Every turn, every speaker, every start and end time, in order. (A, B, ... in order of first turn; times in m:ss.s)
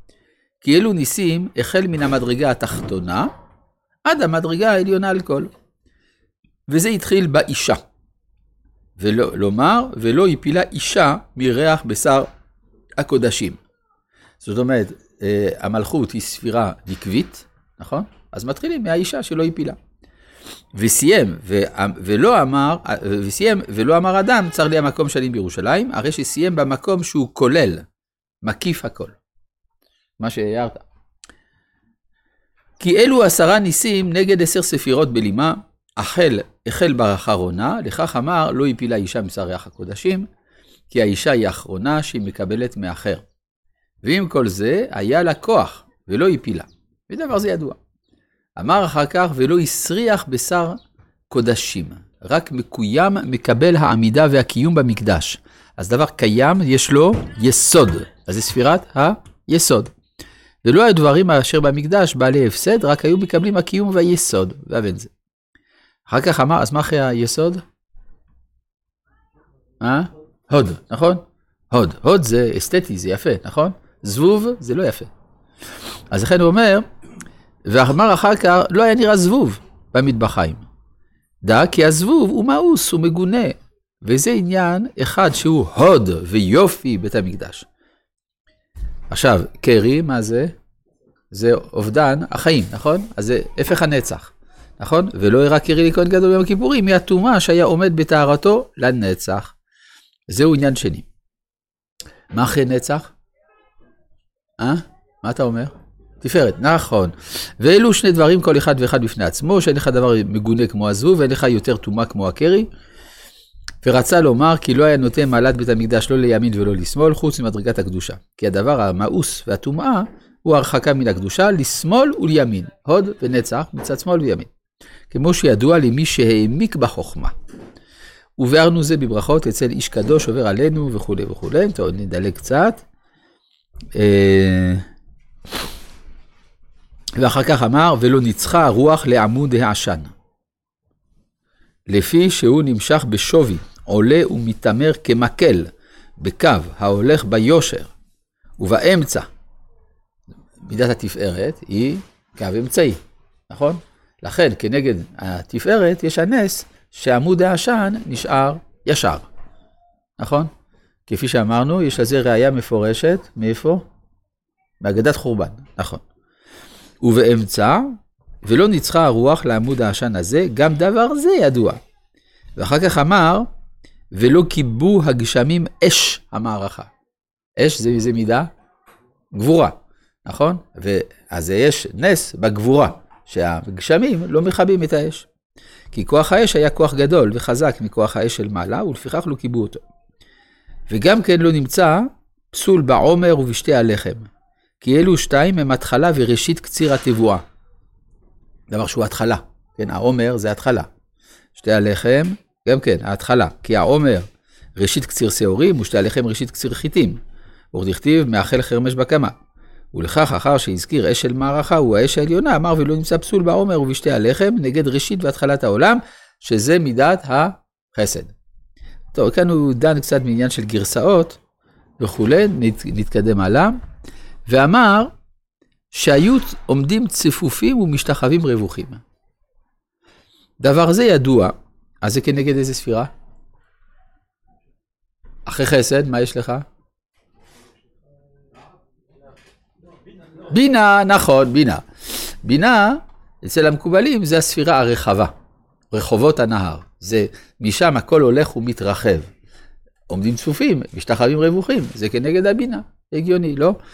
0:00.6-0:03.3 A
0:04.0-0:05.5 A
0:06.7-0:07.8 A
0:09.0-0:12.3 A
0:13.0-0:13.6 A
0:14.4-0:19.8 A
0:20.7-0:27.8 A
0:28.4-0:29.2 A
0:30.2-0:30.8 A
0:32.8-0:40.3 A
0:40.9-0:43.2 A
0:44.0-0:47.8 A
0:48.6-0:50.8 A
0:51.3-0:59.9 A
1:00.6-1:05.1 A
1:06.1-1:07.6 A
1:09.8-1:15.1 A
1:16.1-1:16.8 A
1:17.6-1:20.7 A
1:21.4-1:27.6 A
1:29.1-1:30.5 A
1:31.3-1:39.6 A
1:40.3-1:41.1 A
1:42.3-1:43.1 A
1:44.6-1:52.7 A
1:53.8-2:04.5 A
2:05.1-2:07.3 A
2:08.4-2:12.8 A
2:14.0-2:14.8 A
2:17.2-2:20.1 A
2:21.9-2:27.9 A
2:28.6-2:29.3 A
2:30.6-2:39.3 A
2:40.2-2:40.5 A
2:41.1-2:43.8 A
2:44.8-2:46.0 A
2:47.0-2:51.8 A
2:52.6-2:53.5 A
2:54.1-2:56.9 A
2:57.6-2:58.5 A
2:59.3-3:05.3 A
3:05.9-3:09.8 A
3:10.9-3:14.3 A
3:14.8-3:17.4 A
3:18.7-3:20.9 A
3:21.6-3:24.2 A
3:24.8-3:27.2 A
3:27.7-3:29.3 A
3:29.9-3:38.3 A
3:39.1-3:41.4 A
3:42.0-3:43.8 A
3:44.5-3:45.1 A
3:45.9-3:49.0 A
3:50.6-3:53.1 A
3:55.5-3:56.6 A
4:00.4-4:05.3 A
4:05.9-4:09.3 A
4:10.1-4:13.8 A